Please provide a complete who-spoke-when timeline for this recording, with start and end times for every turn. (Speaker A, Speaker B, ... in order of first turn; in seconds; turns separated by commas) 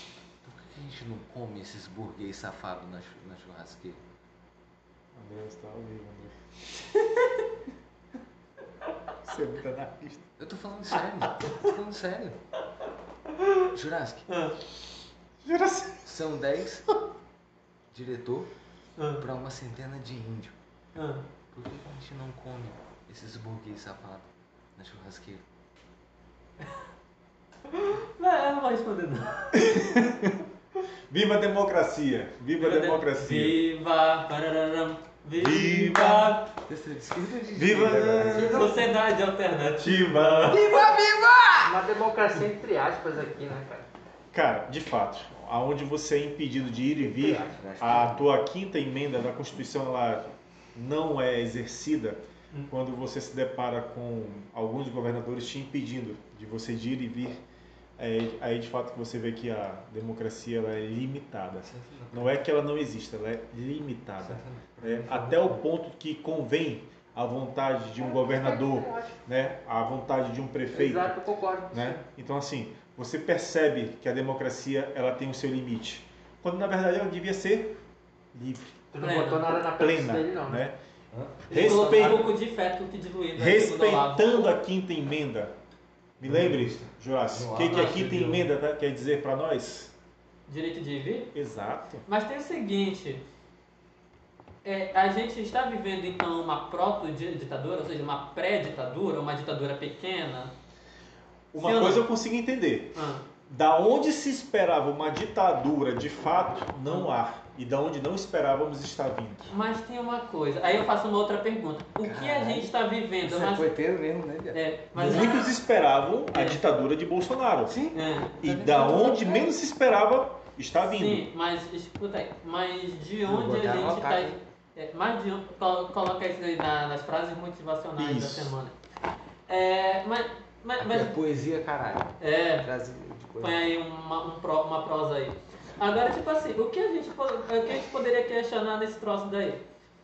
Speaker A: 0.4-4.0, Speaker B: 5.2-6.3, Speaker C: 7.0-7.3, Speaker B: 9.2-10.3, Speaker A: 10.4-12.4, Speaker A: 13.7-14.2, Speaker C: 14.3-14.5, Speaker B: 15.4-16.1, Speaker A: 16.0-16.9, Speaker A: 17.9-18.5, Speaker C: 19.0-19.2, Speaker A: 19.2-20.5, Speaker C: 20.9-21.2, Speaker A: 21.5-25.4, Speaker C: 27.7-29.5, Speaker B: 29.5-30.4, Speaker B: 31.1-33.6, Speaker C: 32.6-36.5, Speaker B: 35.4-36.4, Speaker A: 36.6-38.8, Speaker B: 37.5-38.7, Speaker C: 38.3-40.6, Speaker B: 39.8-40.6, Speaker A: 40.5-41.8, Speaker D: 41.6-43.9, Speaker B: 44.3-57.4, Speaker D: 47.0-47.6, Speaker A: 47.5-48.2, Speaker B: 58.0-71.2, Speaker A: 61.6-62.3, Speaker A: 64.2-65.6, Speaker D: 68.0-69.2, Speaker D: 70.7-72.0, Speaker B: 71.7-77.8, Speaker B: 78.3-78.7, Speaker D: 78.9-80.6, Speaker C: 79.0-79.5, Speaker B: 79.7-80.8, Speaker A: 81.1-82.2, Speaker B: 81.5-82.3, Speaker C: 81.5-84.5, Speaker B: 83.3-85.5, Speaker B: 86.2-89.9, Speaker A: 86.2-88.5, Speaker C: 87.6-88.2, Speaker C: 90.5-91.3, Speaker B: 91.3-92.0, Speaker C: 92.1-93.2, Speaker C: 94.6-100.5, Speaker B: 101.5-109.5, Speaker C: 101.6-102.0, Speaker C: 102.9-103.2, Speaker C: 106.8-107.1, Speaker C: 109.5-113.7, Speaker A: 112.0-114.6, Speaker C: 114.5-115.4, Speaker B: 114.9-117.8, Speaker C: 116.3-116.7, Speaker A: 117.7-119.5, Speaker C: 117.9-118.4, Speaker B: 118.4-121.2, Speaker C: 120.8-128.7, Speaker A: 123.2-124.4, Speaker B: 128.0-128.6, Speaker C: 129.5-131.1, Speaker A: 130.8-133.7, Speaker C: 132.2-132.7, Speaker C: 133.4-139.6